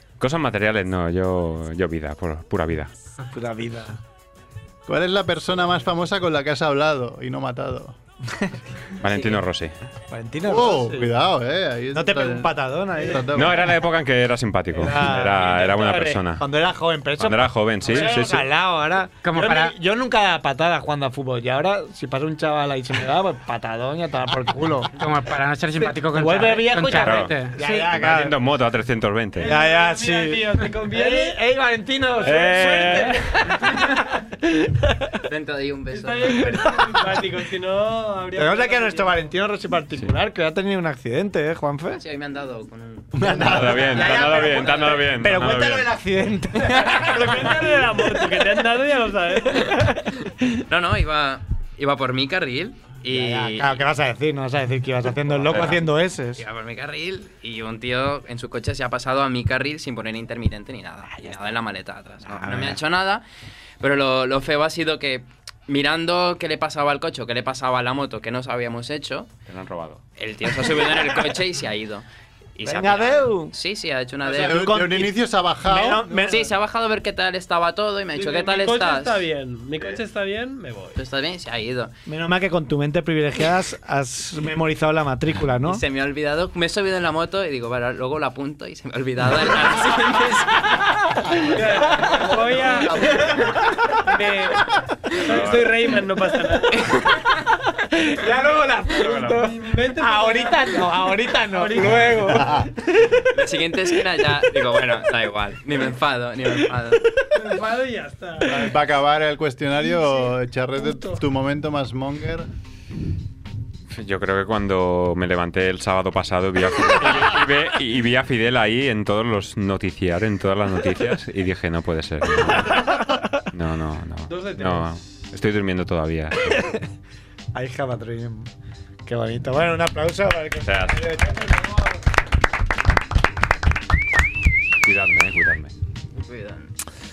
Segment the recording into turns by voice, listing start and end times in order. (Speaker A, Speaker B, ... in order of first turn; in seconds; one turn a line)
Speaker A: 0.2-2.9
Speaker B: 3.3-4.0
Speaker C: 4.9-8.0
Speaker A: 9.0-9.7
Speaker B: 10.1-11.1
Speaker C: 10.4-13.7
Speaker B: 11.9-13.3
Speaker A: 13.3-16.4
Speaker B: 14.7-24.9
Speaker A: 17.2-18.5
Speaker D: 19.2-19.7
Speaker D: 24.9-27.6
Speaker B: 26.1-28.4
Speaker A: 26.9-29.5
Speaker E: 29.4-31.4
Speaker B: 29.4-35.1
Speaker A: 32.2-33.2
Speaker F: 35.3-36.6
Speaker E: 35.9-39.3
Speaker B: 36.4-36.7
Speaker B: 38.4-42.0
Speaker F: 41.9-45.0
Speaker C: 43.1-44.0
Speaker A: 43.4-45.9
Speaker B: 43.4-48.0
Speaker E: 46.8-49.7
Speaker B: 49.5-50.4
Speaker F: 50.7-53.8
Speaker B: 53.1-56.4
Speaker F: 55.5-55.8
Speaker F: 56.4-63.2
Speaker B: 61.1-61.5
Speaker B: 62.2-62.8
Speaker F: 63.8-69.3
Speaker A: 69.5-70.0
Speaker F: 70.2-72.0
Speaker F: 72.6-74.7
Speaker B: 72.6-73.5
Speaker C: 74.2-76.3
Speaker B: 74.3-76.5
Speaker F: 76.2-79.2
Speaker E: 78.1-81.0
Speaker F: 81.0-81.9
Speaker B: 82.0-85.8
Speaker F: 85.6-90.7
Speaker B: 91.1-93.4
Speaker E: 91.5-93.2
Speaker E: 94.0-94.6
Speaker E: 95.1-96.9
Speaker A: 95.3-95.7
Speaker B: 97.8-103.2
Speaker A: 99.0-99.3
Speaker E: 99.2-102.6
Speaker C: 102.3-102.7
Speaker F: 103.3-107.0
Speaker E: 107.3-108.7
Speaker C: 108.4-112.5
Speaker E: 109.8-111.2
Speaker A: 113.9-122.8
Speaker B: 122.6-123.3
Speaker A: 123.5-126.6
Speaker E: 124.3-124.9
Speaker B: 127.5-128.5
Speaker B: 129.0-131.5
Speaker A: 130.6-131.1
Speaker E: 131.2-132.0
Speaker A: 134.8-135.7
Speaker F: 136.1-136.7